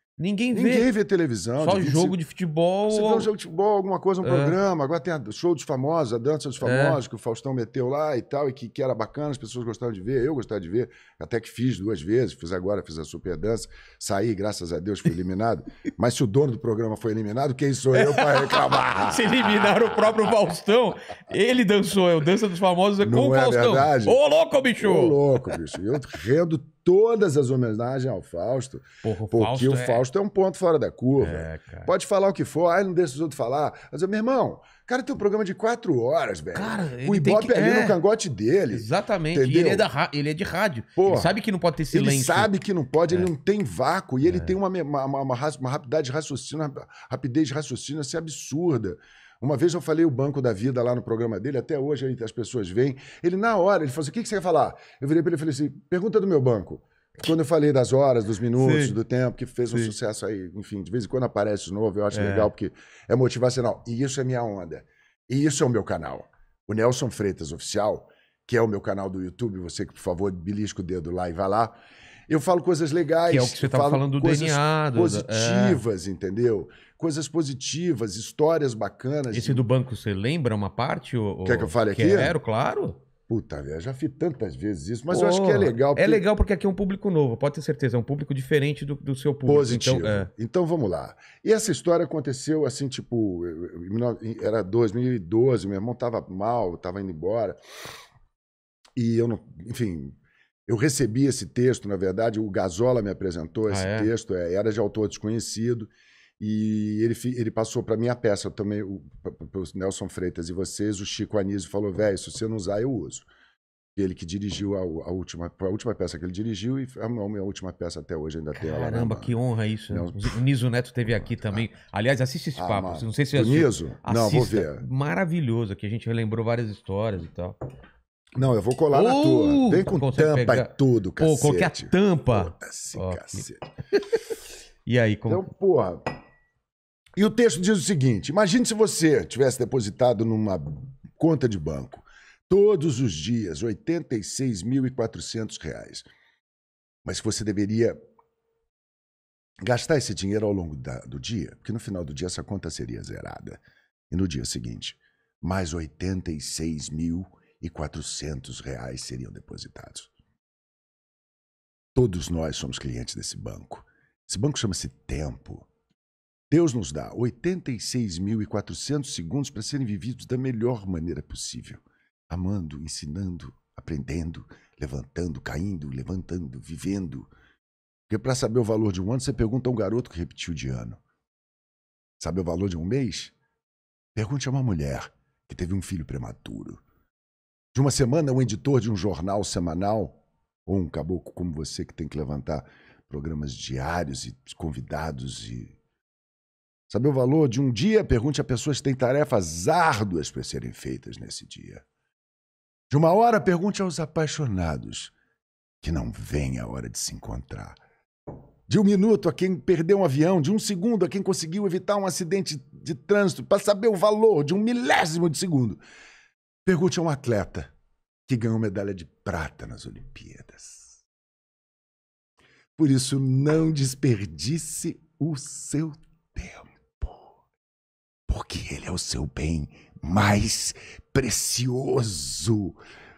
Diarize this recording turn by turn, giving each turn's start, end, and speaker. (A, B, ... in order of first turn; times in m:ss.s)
0:00.2-0:00.9 A
0:00.5-0:02.2 B
0:01.6-0:03.3 A
0:02.9-0:19.9 B
0:04.2-0:04.6 A
0:06.6-0:07.0 A
0:17.9-0:25.6 A
0:23.0-0:24.2 B
0:24.8-0:39.8 B
0:29.0-0:30.0 A
0:31.2-0:31.9 A
0:36.5-0:38.0 A
0:38.7-0:42.5 A
0:41.0-0:41.3 B
0:41.9-1:11.8 B
0:44.2-0:44.5 A
0:58.6-0:59.0 A
0:59.7-0:59.9 A
1:02.1-1:02.5 A
1:12.3-1:19.6 B
1:13.3-1:15.8 A
1:19.3-1:23.0 A
1:21.4-1:22.4 B
1:23.3-1:26.2 B
1:25.1-1:30.3 A
1:29.4-1:37.6 B
1:39.0-1:53.3 B
1:43.7-1:44.1 A
1:54.0-1:59.3 B
1:58.5-2:07.6 A
1:59.9-2:00.4 B
2:01.2-2:01.7 B
2:02.6-2:04.8 B
2:08.3-2:13.7 B
2:08.9-2:13.4 A
2:14.8-2:15.5 A
2:15.3-2:16.1 B
2:17.2-2:26.1 B
2:27.0-2:28.0 B
2:29.6-2:40.1 B
2:41.9-2:45.7 B
2:46.5-2:57.3 B
2:58.1-3:01.0 B
3:02.2-3:03.3 B
3:04.1-3:06.8 B
3:07.7-3:15.8 B
3:16.9-3:21.8 B
3:22.9-3:25.1 B
3:25.8-3:27.8 B
3:28.7-3:35.8 B
3:36.6-3:37.7 B
3:38.3-3:41.0 B
3:42.8-3:47.2 B
3:48.3-3:52.8 B